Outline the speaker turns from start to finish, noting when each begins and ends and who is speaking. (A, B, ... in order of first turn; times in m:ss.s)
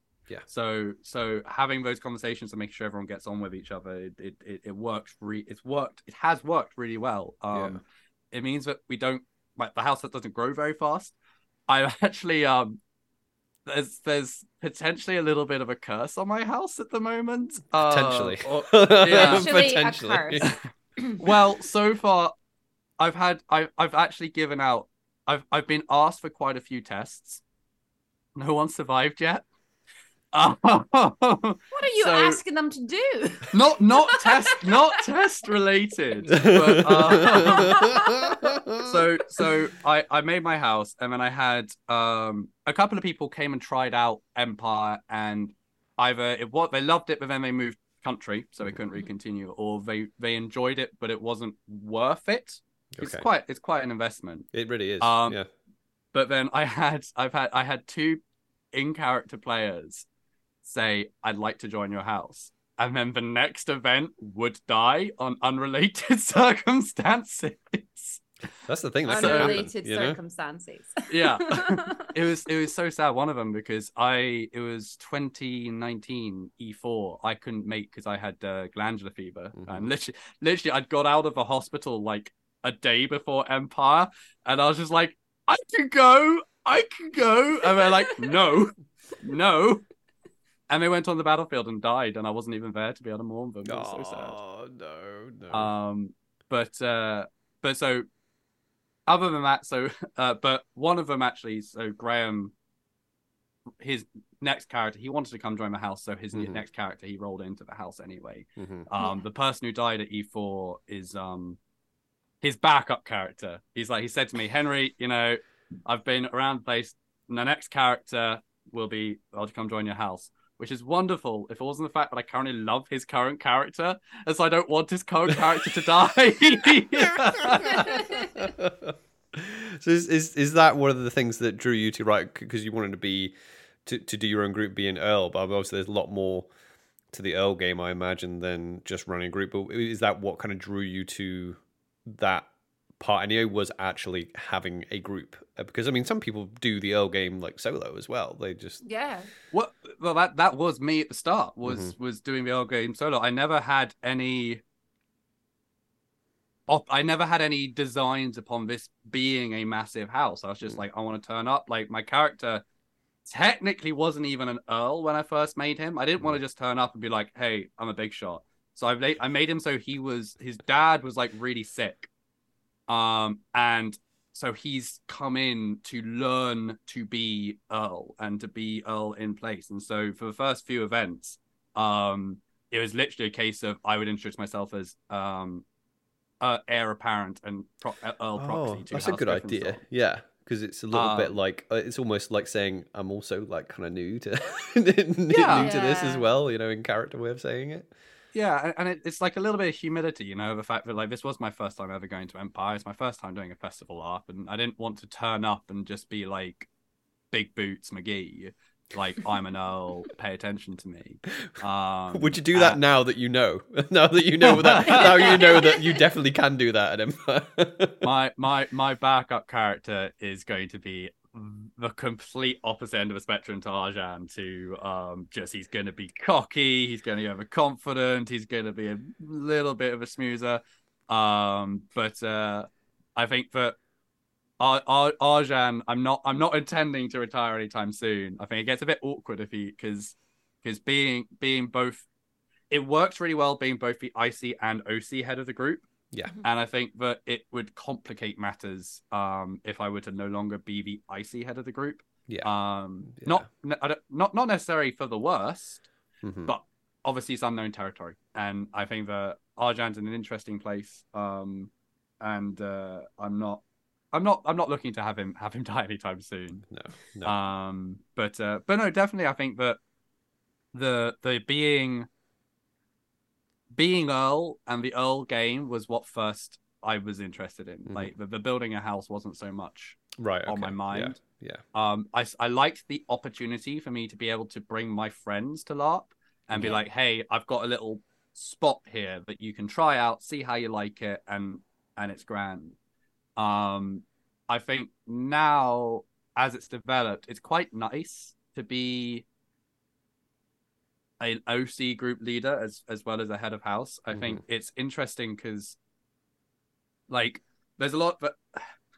0:00.5-0:11.1 A
0:07.5-0:07.8 B
0:11.7-0:12.8 A
0:13.6-0:19.6 A
0:17.8-0:20.6 B
0:19.1-0:20.4 C
0:21.0-0:21.2 C
0:21.2-0:22.3 A
0:23.0-0:27.4 A
0:28.4-0:29.5 A
0:30.3-0:32.4 A
0:31.7-0:35.0 C
0:33.5-0:37.9 A
0:36.3-0:38.9 B
0:37.2-0:38.5 C
0:38.8-0:55.4 A
0:53.0-0:53.3 B
0:54.5-0:55.5 B
0:56.1-0:58.2 A
0:58.7-1:00.1 A
1:00.6-1:08.2 A
1:08.6-1:10.2 B
1:09.1-1:12.1 C
1:09.1-1:09.6 A
1:11.1-1:29.9 A
1:19.6-1:19.9 B
1:30.7-1:34.4 A
1:33.6-1:35.7 B
1:35.5-1:38.1 A
1:39.1-1:42.5 A
1:43.8-1:51.6 A
1:46.3-1:46.6 B
1:48.6-1:48.8 B
1:52.4-2:08.0 A
2:07.2-2:13.3 B
2:07.7-2:08.3 C
2:13.8-2:16.5 B
2:17.1-2:28.8 B
2:28.8-2:29.3 C
2:29.5-2:34.6 A
2:31.7-2:31.9 B
2:36.7-2:42.6 A
2:43.3-2:52.1 A
2:52.9-3:05.6 A
3:06.4-3:09.8 A
3:08.4-3:17.9 B
3:10.9-3:11.4 A
3:15.3-3:15.7 A
3:15.6-3:16.3 C
3:18.3-3:26.7 A
3:27.3-3:32.8 A
3:32.1-3:38.1 B
3:34.4-3:35.6 A
3:35.0-3:35.9 C
3:38.0-3:53.8 A
3:54.6-4:02.1 A
4:02.7-4:05.9 A
4:06.1-4:06.4 B
4:06.4-4:15.9 A
4:13.1-4:13.4 B
4:16.2-4:16.5 B
4:16.5-4:26.7 A
4:26.7-4:27.4 B
4:27.2-4:29.8 A
4:30.7-4:32.1 A
4:33.7-4:41.2 A
4:40.2-4:41.6 B
4:41.7-4:52.8 A
4:53.4-4:59.3 A
5:01.2-5:05.8 A
5:07.1-5:08.7 A